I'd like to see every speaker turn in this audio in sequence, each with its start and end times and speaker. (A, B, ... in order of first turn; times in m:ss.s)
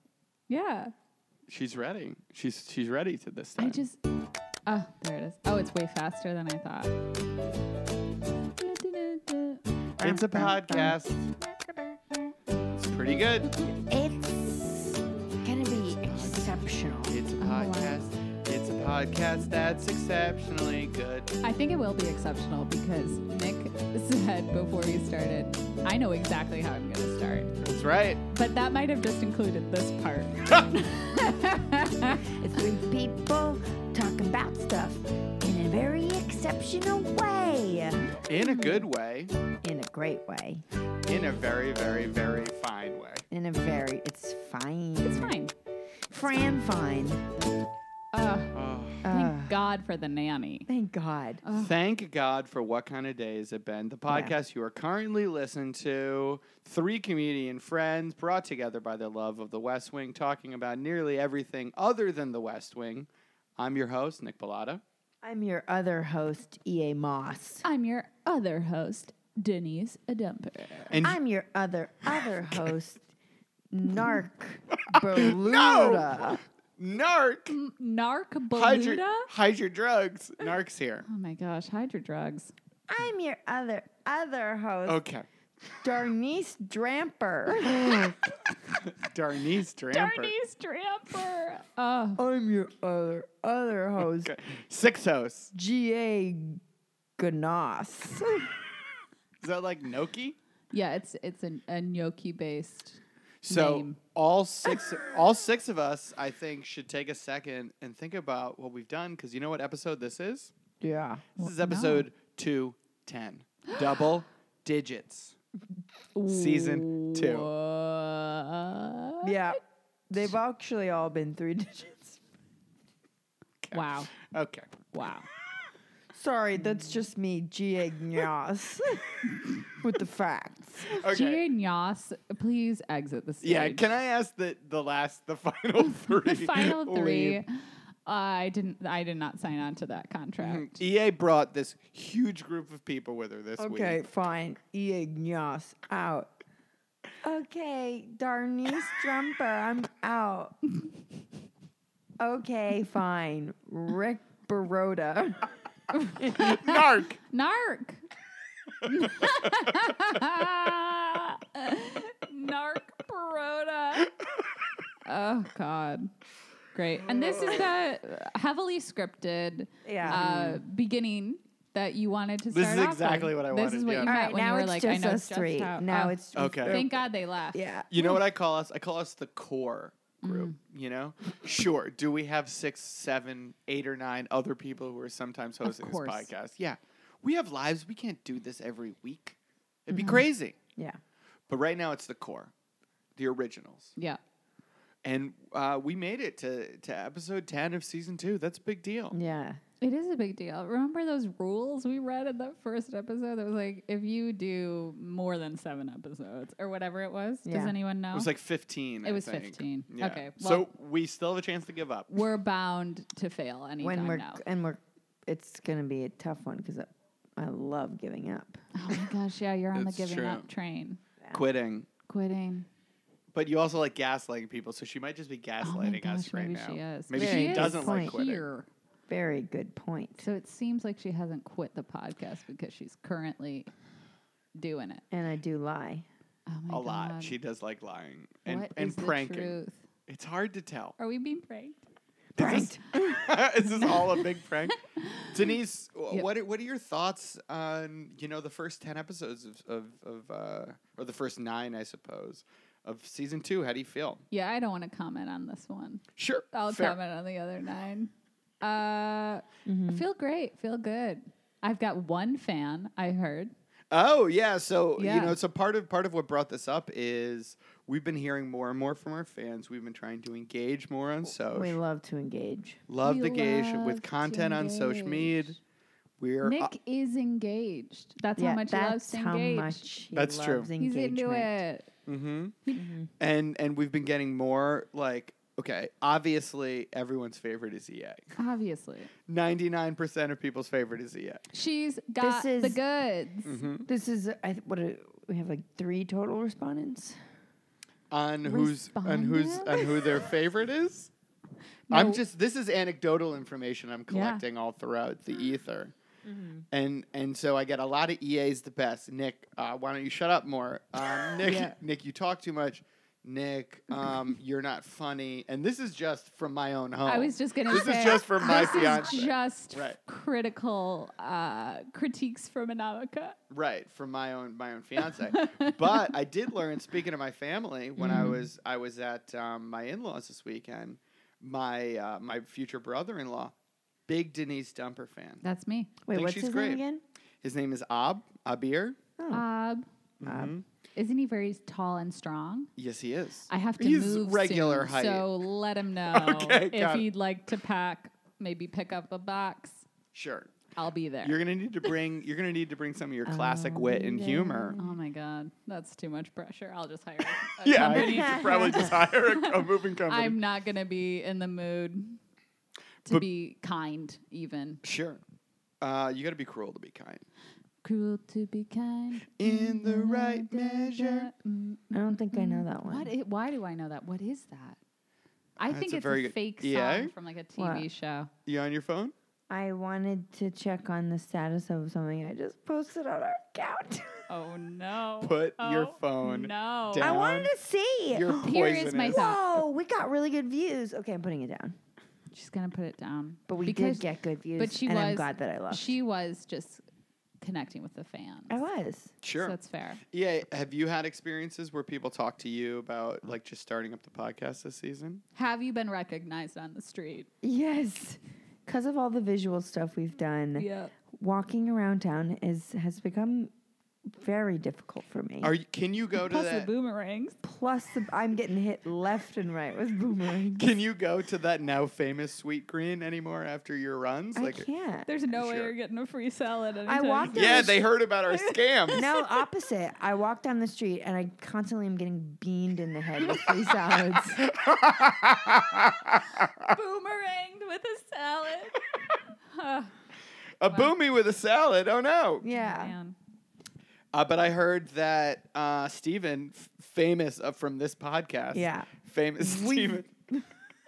0:00.5-0:00.9 A
0:01.5-0:03.8 B
0:03.6-0:04.0 A
0:04.7-0:06.9 A
0:08.6-0:09.6 A
0:10.0-0:12.2 C
0:10.0-0:11.2 B
0:12.7-0:13.5 B
0:13.1-0:17.2 C
0:16.1-0:21.4 B
0:17.4-0:18.0 A
0:21.4-0:27.5 A
0:27.6-0:28.2 B
0:28.3-0:32.3 A
0:32.2-0:38.1 C
0:38.2-0:38.9 A
0:38.3-0:39.3 B
0:39.6-0:40.6 C
0:41.1-0:43.2 B
0:43.3-0:45.4 C
0:45.0-0:45.5 A
0:46.1-0:47.2 C
0:48.1-0:50.7 A
0:48.5-0:49.0 B
0:49.0-0:49.6 C
0:50.7-0:51.4 C
0:51.4-0:51.7 A
0:51.6-1:04.8 B
0:54.1-0:54.4 C
1:05.2-1:07.6 C
1:07.6-1:10.9 A
1:10.9-1:11.2 B
1:11.0-1:13.1 C
1:13.7-1:16.4 C
1:14.9-1:17.6 B
1:17.5-1:19.3 A
1:18.5-1:21.0 B
1:21.1-1:22.5 A
1:22.9-1:25.0 C
1:24.9-1:25.3 B
1:25.8-1:28.0 C
1:27.6-1:28.3 B
1:28.8-1:30.3 B
1:29.9-1:32.2 A
1:32.2-1:34.3 C
1:34.0-1:35.5 B
1:35.5-1:36.6 C
1:37.2-1:38.6 C
1:39.4-1:40.4 B
1:40.7-1:44.0 A
1:43.4-1:50.5 B
1:50.8-1:51.2 C
1:51.4-1:52.1 A
1:51.4-1:55.4 B
1:56.2-1:59.6 A
1:56.3-1:57.5 B
1:59.2-2:02.2 C
2:03.6-2:04.7 B
2:03.7-2:04.1 A
2:04.9-2:05.3 A
2:06.1-2:11.0 C
2:10.9-2:11.4 B
2:11.0-2:13.9 A
2:13.4-2:17.4 B
2:16.0-2:20.8 A
2:20.4-2:24.0 B
2:23.6-2:26.3 C
2:27.2-2:30.6 C
2:32.2-2:35.5 C
2:35.9-2:38.0 A
2:36.3-2:37.2 B
2:38.8-2:44.1 A
2:45.0-2:46.1 A
2:46.7-2:57.7 A
2:47.0-2:47.7 B
2:49.8-2:50.2 C
2:50.1-2:50.6 B
2:52.5-2:54.1 B
2:54.1-2:57.0 C
2:56.4-2:56.8 B
2:57.5-2:58.1 C
2:57.9-3:10.6 B
3:00.2-3:00.6 A
3:05.6-3:06.3 A
3:09.9-3:10.2 C
3:11.5-3:12.5 B
3:13.2-3:13.9 B
3:15.0-3:19.2 B
3:19.1-3:19.6 C
3:19.8-3:28.3 A
3:27.4-3:27.7 C
3:28.1-3:32.1 B
3:29.0-3:30.7 A
3:32.1-3:34.4 A
3:33.8-3:38.6 C
3:38.7-3:41.0 A
3:39.7-3:40.5 B
3:41.3-3:41.9 B
3:42.1-3:42.7 A
3:43.3-3:48.4 B
3:45.6-3:48.7 A
3:47.1-3:48.2 C
3:49.1-3:50.3 C
3:50.2-3:53.7 A
3:54.6-3:55.0 A
3:55.1-3:56.1 C
3:56.5-3:57.4 A
3:56.7-3:59.6 B
3:58.5-3:59.8 A
4:00.1-4:01.0 B
4:01.0-4:01.8 A
4:02.4-4:03.2 C
4:02.4-4:04.8 B
4:03.7-4:04.2 A
4:05.0-4:05.3 A
4:05.3-4:14.2 B
4:14.3-4:23.5 A
4:16.2-4:17.0 B
4:19.7-4:20.0 C
4:23.9-4:31.8 B
4:25.0-4:25.4 A
4:31.5-4:32.8 C
4:32.9-4:35.6 B
4:33.0-4:35.6 A
4:36.2-4:36.7 B
4:36.4-4:39.8 A
4:38.4-4:41.5 C
4:40.2-4:40.7 B
4:40.8-4:41.9 A
4:42.1-4:42.6 B
4:42.8-4:43.1 C
4:43.2-4:48.2 B
4:48.4-4:49.1 A
4:49.3-4:51.4 B
4:51.5-4:53.6 A
4:52.2-4:52.8 C
4:53.5-4:53.9 B
4:53.9-4:57.2 C
4:58.1-5:01.1 B
4:58.4-5:00.0 A
5:01.9-5:02.2 A
5:01.9-5:05.9 B
5:04.1-5:04.4 A
5:06.3-5:06.6 C
5:06.7-5:20.0 B
5:11.4-5:11.8 A
5:17.1-5:23.4 A
5:23.5-5:33.5 B
5:25.2-5:26.0 A
5:28.0-5:28.4 C
5:34.1-5:35.4 B
5:35.4-5:35.9 A
5:36.1-5:37.0 C
5:36.1-5:36.8 B
5:37.4-5:39.0 B
5:39.2-5:39.4 C
5:39.3-5:39.9 A
5:40.2-5:40.6 B
5:40.3-5:40.5 C
5:41.0-5:42.7 A
5:42.8-5:45.3 B
5:43.5-5:49.8 A
5:46.1-5:47.1 B
5:50.1-5:50.6 B
5:50.8-5:51.4 A
5:51.2-5:54.8 B
5:53.3-5:54.9 C
5:54.8-6:02.2 A
5:57.6-6:00.4 B
5:57.8-5:59.0 C
6:03.1-6:04.8 A
6:04.8-6:05.2 B
6:05.8-6:07.2 B
6:07.8-6:14.8 A
6:09.4-6:11.3 B
6:11.9-6:13.1 C
6:15.6-6:18.3 A
6:15.7-6:17.1 B
6:17.6-6:17.9 C
6:18.5-6:19.1 B
6:19.5-6:24.2 C
6:24.3-6:27.2 A
6:25.2-6:27.5 B
6:27.0-6:31.8 C
6:28.1-6:29.3 B
6:28.4-6:29.4 A
6:32.3-6:34.1 A
6:33.5-6:36.0 C
6:34.6-6:36.8 A
6:37.4-6:38.6 A
6:38.5-6:39.1 C
6:39.2-6:45.2 B
6:39.4-6:40.0 A
6:45.4-6:47.3 A
6:47.4-6:53.5 C
6:50.6-6:50.9 A
6:54.1-6:55.5 C
6:55.4-6:56.7 B
6:56.2-6:57.4 A
6:57.4-7:00.7 C
7:00.6-7:04.7 B
7:04.4-7:05.1 C
7:05.1-7:09.2 A
7:05.3-7:05.7 B
7:06.9-7:07.8 C
7:07.3-7:09.1 B
7:08.9-7:14.5 C
7:14.4-7:16.7 B
7:16.7-7:18.8 A
7:19.4-7:19.9 A
7:20.6-7:22.5 B
7:22.4-7:22.9 C
7:22.5-7:23.2 A
7:24.1-7:30.1 B
7:28.5-7:30.4 C